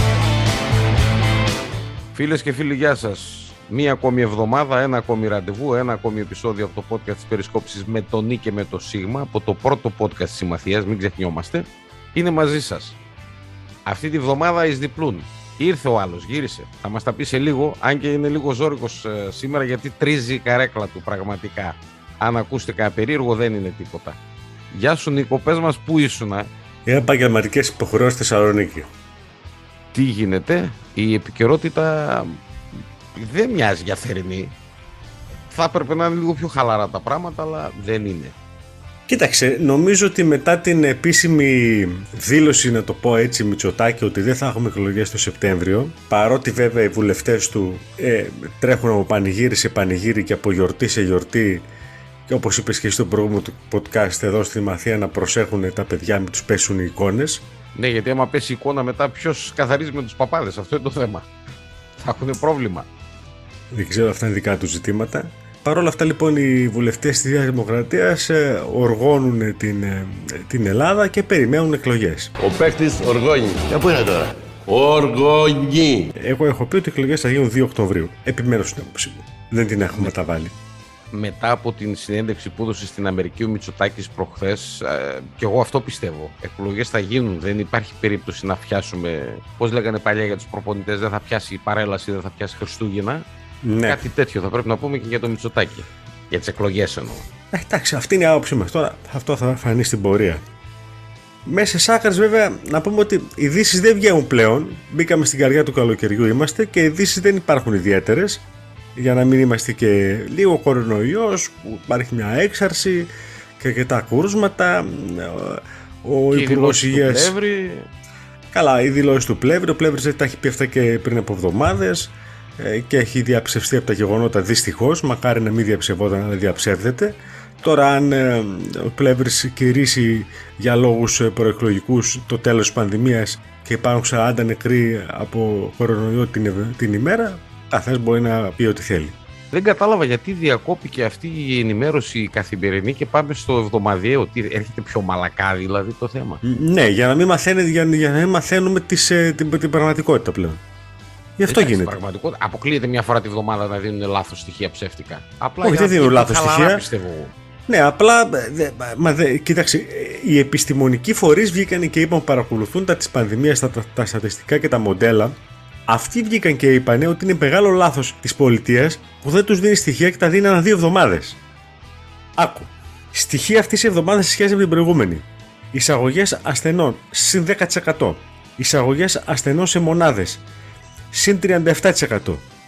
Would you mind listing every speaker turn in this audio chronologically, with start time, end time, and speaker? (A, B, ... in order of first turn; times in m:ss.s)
0:02.1-0:13.0 A
0:13.8-0:24.2 A
0:24.7-0:26.5 A
0:26.8-0:28.9 B
0:29.9-0:32.4 A
0:33.1-0:34.6 A
0:35.5-0:38.3 A
0:39.1-0:51.6 B
0:52.3-0:57.4 B
0:57.7-1:01.3 A
1:02.0-1:02.9 A
1:03.7-1:12.3 B
1:12.4-1:16.1 C
1:16.2-1:20.5 B
1:21.1-1:33.2 A
1:33.6-1:34.0 B
1:33.8-1:37.2 A
1:37.5-1:40.4 B
1:41.4-1:48.4 B
1:49.0-1:57.3 B
1:56.3-1:57.9 A
1:58.5-2:19.1 B
2:19.5-2:26.4 A
2:26.4-2:30.6 B
2:31.4-2:32.0 B
2:31.5-2:37.3 A
2:35.6-2:36.8 B
2:37.7-2:45.4 B
2:45.9-2:51.4 B
2:52.4-3:00.4 B
3:01.1-3:02.4 B